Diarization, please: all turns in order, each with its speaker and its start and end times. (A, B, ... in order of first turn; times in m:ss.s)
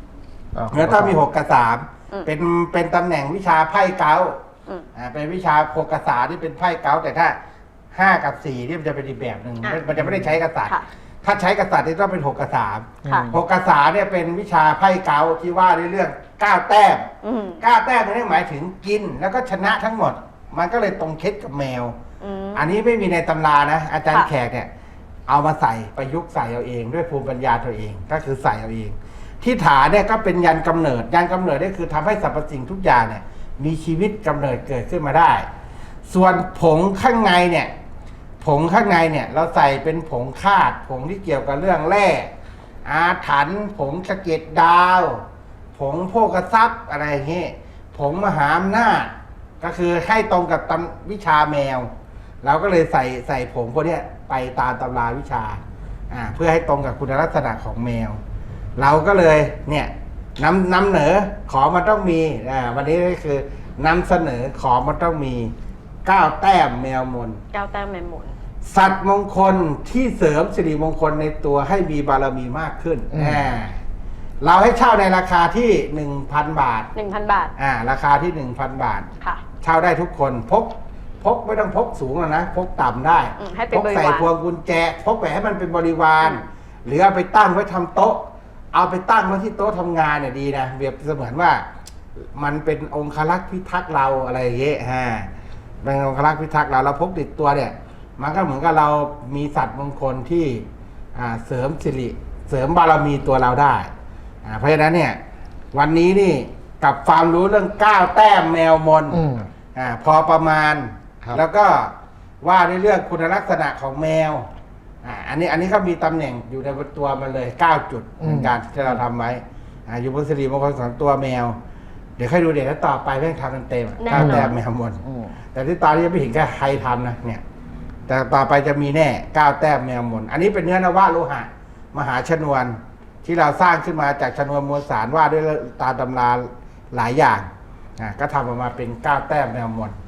0:00.6-0:01.2 A
0:00.7-0:04.4 B
0:05.0-0:07.4 B
0:07.9-0:22.0 B
0:10.0-0:10.3 A
0:13.0-0:13.4 A
0:13.1-0:13.3 C
0:17.2-0:17.6 C
0:22.2-0:22.7 C
0:22.6-0:24.7 B
0:25.3-0:35.5 B
0:36.1-0:37.7 B
0:38.4-0:42.3 B
0:42.8-0:45.2 B
0:45.8-0:51.9 B
0:52.4-0:58.2 B
0:58.8-1:05.5 B
1:06.0-1:07.4 B
1:07.5-1:08.3 C
1:08.6-1:13.8 B
1:13.1-1:13.5 A
1:14.4-1:16.9 B
1:17.0-1:17.5 C
1:17.6-1:19.1 B
1:19.6-1:31.6 B
1:23.4-1:24.3 C
1:32.4-1:35.3 B
1:35.8-1:43.9 B
1:44.4-1:45.2 B
1:45.7-1:49.2 B
1:49.1-1:49.5 A
1:49.8-1:54.5 B
1:55.0-2:01.6 B
1:58.2-1:59.0 A
2:02.2-2:05.0 B
2:04.0-2:04.6 C
2:04.2-2:05.4 A
2:05.5-2:07.4 B
2:08.1-2:20.0 B